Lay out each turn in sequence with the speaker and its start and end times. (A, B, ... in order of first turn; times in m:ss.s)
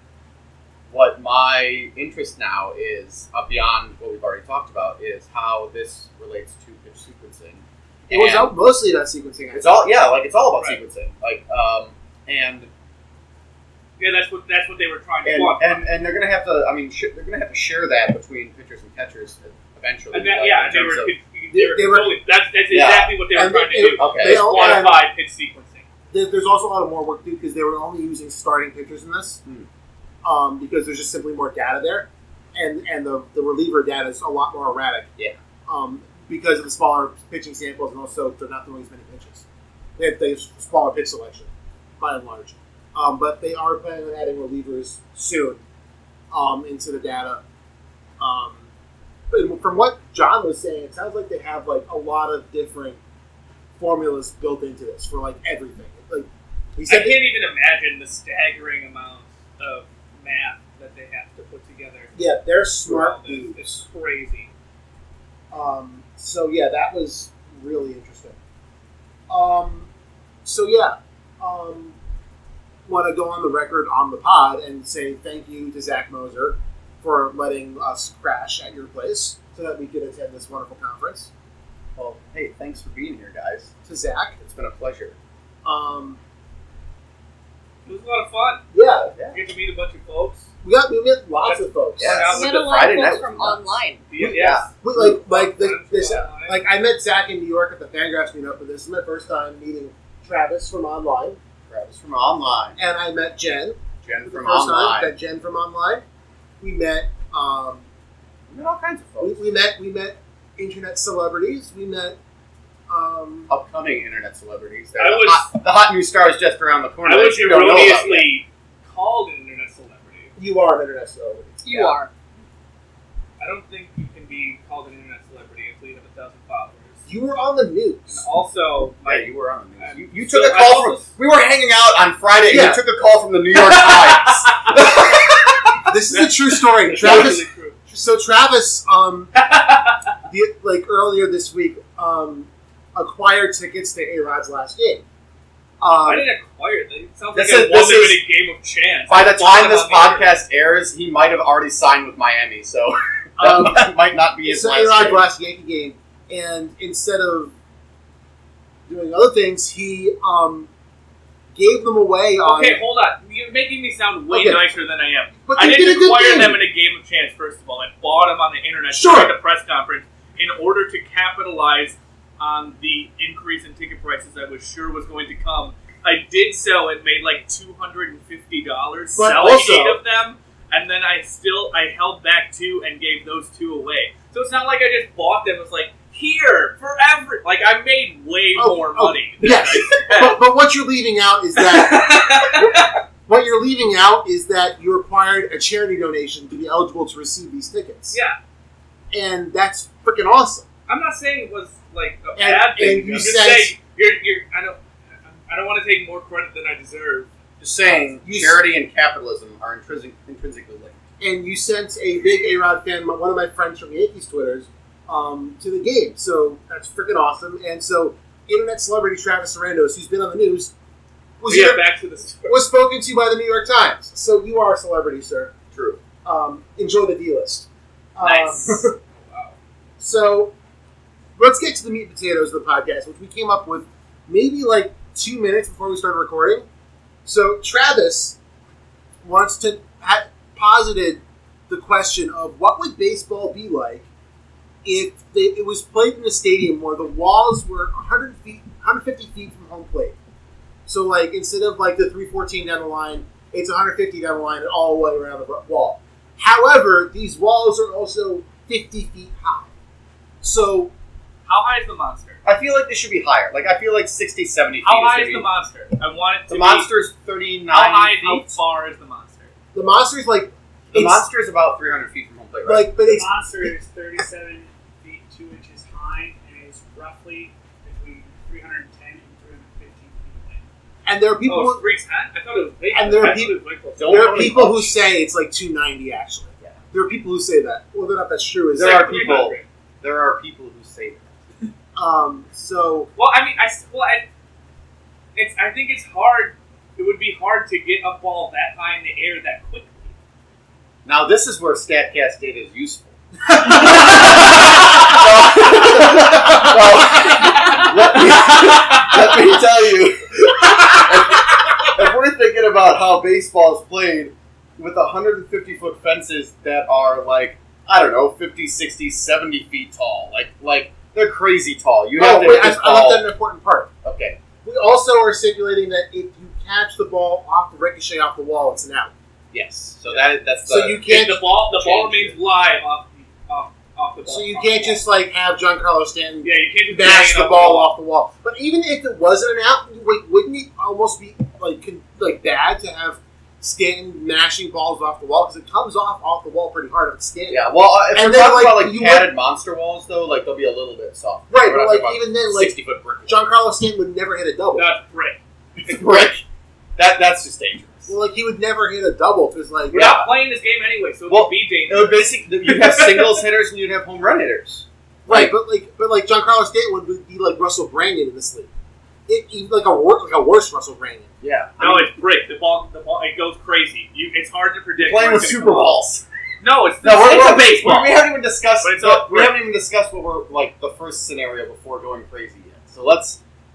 0:00.9-0:08.5 A
0:08.1-0:09.9 B
0:09.5-0:12.7 A
0:10.6-0:10.8 C
0:14.0-0:15.9 C
0:15.2-0:21.1 A
0:20.1-0:25.9 C
0:21.5-0:22.2 B
0:22.7-0:23.2 A
0:23.3-0:25.0 B
0:23.8-0:24.9 A
0:26.1-0:29.4 B
0:30.2-0:35.1 B
0:35.7-0:39.4 B
0:40.0-0:45.6 B
0:46.3-0:47.4 B
0:48.2-0:48.6 B
0:49.3-0:53.0 B
0:53.8-0:57.2 B
0:56.9-1:02.1 C
1:02.1-1:03.8 B
1:02.8-1:04.5 C
1:05.5-1:08.4 B
1:09.3-1:09.9 B
1:10.4-1:12.0 B
1:12.9-1:21.3 B
1:22.0-1:23.7 A
1:23.9-1:24.4 B
1:24.4-1:25.2 A
1:25.6-1:26.2 B
1:27.9-1:28.7 C
1:28.7-1:29.1 B
1:29.3-1:30.5 C
1:30.6-1:32.2 B
1:31.4-1:32.7 C
1:32.0-1:34.7 A
1:32.2-1:34.0 D
1:34.1-1:36.6 C
1:34.8-1:41.4 B
1:41.7-1:42.8 A
1:42.8-1:46.0 B
1:44.0-1:45.1 A
1:46.6-1:47.9 B
1:48.5-1:49.4 A
1:49.2-1:52.2 B
1:52.9-1:53.5 B
1:53.5-1:58.3 A
1:55.0-1:55.5 C
1:57.0-2:00.3 C
2:00.4-2:01.9 B
2:01.6-2:02.1 D
2:03.4-2:07.0 C
2:07.1-2:08.2 B
2:08.1-2:11.1 C
2:09.1-2:15.7 A
2:12.5-2:12.8 B
2:13.5-2:15.0 C
2:15.9-2:19.3 B
2:16.1-2:17.8 C
2:19.4-2:20.1 C
2:20.3-2:25.0 B
2:25.8-2:26.3 B
2:26.0-2:30.3 C
2:27.3-2:28.2 A
2:29.1-2:35.3 A
2:33.4-2:33.9 B
2:34.4-2:37.5 B
2:38.9-2:40.7 B
2:41.6-2:42.8 B
2:42.4-3:10.4 C
2:44.3-2:44.6 B
2:45.4-2:46.6 B
2:48.9-2:49.3 B
2:59.2-3:00.0 B
3:08.6-3:18.2 B
3:11.6-3:13.0 C
3:18.1-3:18.4 C
3:19.1-3:20.7 B
3:20.9-3:27.3 C
3:22.4-3:23.8 B
3:27.6-3:31.0 A
3:28.2-3:28.6 B
3:31.2-3:40.7 B
3:41.4-3:41.8 B
3:41.5-3:42.6 C
3:42.4-3:45.5 B
3:45.7-3:46.0 A
3:46.2-3:48.9 B
3:48.2-3:49.6 C
3:50.0-3:50.5 B
3:51.4-3:56.6 B
3:57.2-3:58.4 B
3:59.2-4:04.1 B
4:04.8-4:10.2 B
4:10.9-4:19.7 B
4:20.4-4:20.9 B
4:21.4-4:22.4 C
4:22.4-4:25.5 A
4:24.8-4:26.9 C
4:26.5-4:28.6 A
4:27.7-4:29.5 C
4:29.7-4:31.3 B
4:30.9-4:32.9 A
4:32.6-4:33.7 B
4:33.0-4:40.7 E
4:41.0-4:41.8 B
4:41.4-4:44.5 C
4:42.9-4:49.5 B
4:44.0-4:45.0 A
4:48.7-4:51.4 A
4:48.8-4:49.6 C
4:52.0-4:53.1 B
4:53.1-4:54.3 C
4:55.4-5:00.1 C
5:01.0-5:23.3 A
5:22.2-5:23.9 B
5:24.0-5:24.4 A
5:24.6-5:29.1 B
5:29.5-5:31.1 A
5:30.6-5:31.4 B
5:31.1-5:35.0 C
5:31.7-5:32.4 A
5:34.3-5:49.3 B
5:36.4-5:37.9 C
5:47.5-5:53.5 A
5:51.5-5:52.7 B
5:53.3-5:54.9 B
5:54.7-5:55.4 C
5:55.8-5:56.4 A
5:57.0-5:58.1 A
5:58.1-6:00.2 B
5:59.9-6:03.4 C
5:59.9-6:00.3 A
6:01.3-6:05.6 A
6:05.3-6:08.7 B
6:09.3-6:11.3 B
6:11.4-6:12.1 A
6:11.8-6:16.0 C
6:15.0-6:16.2 A
6:16.6-6:18.3 C
6:17.0-6:23.4 A
6:18.8-6:19.6 C